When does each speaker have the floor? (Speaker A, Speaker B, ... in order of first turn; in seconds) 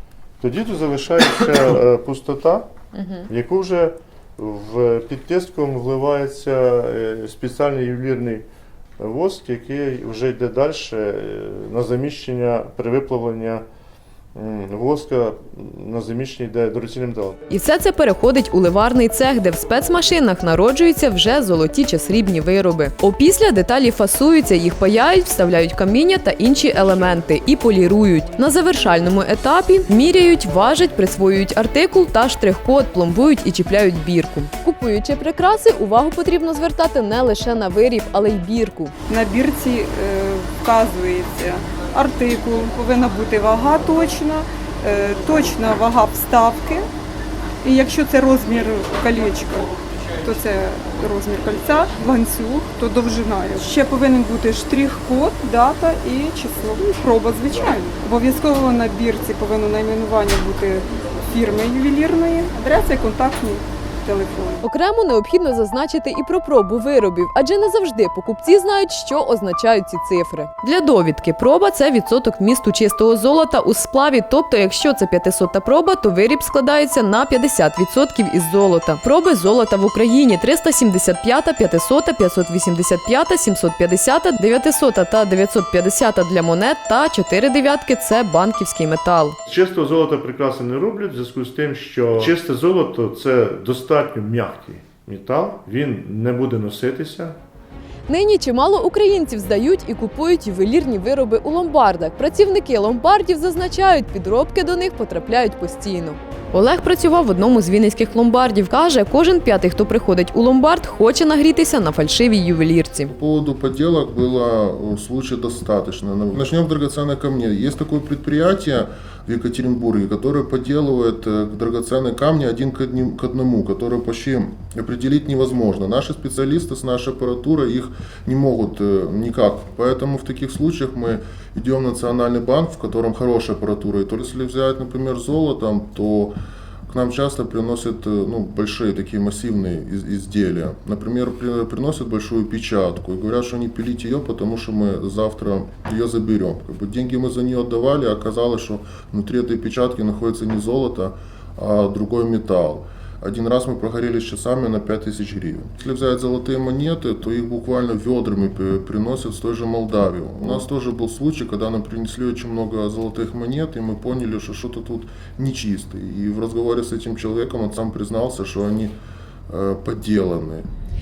Speaker A: 0.4-2.7, 3.3-8.4, 9.0-13.7, 14.3-17.4, 89.5-97.4
Speaker B: 3.0-3.3, 17.5-38.9, 64.6-89.4, 98.1-113.1
Speaker C: 39.1-46.8, 47.7-49.7, 50.2-60.8, 61.3-64.5
Speaker D: 113.1-136.4, 136.9-169.0, 169.5-170.7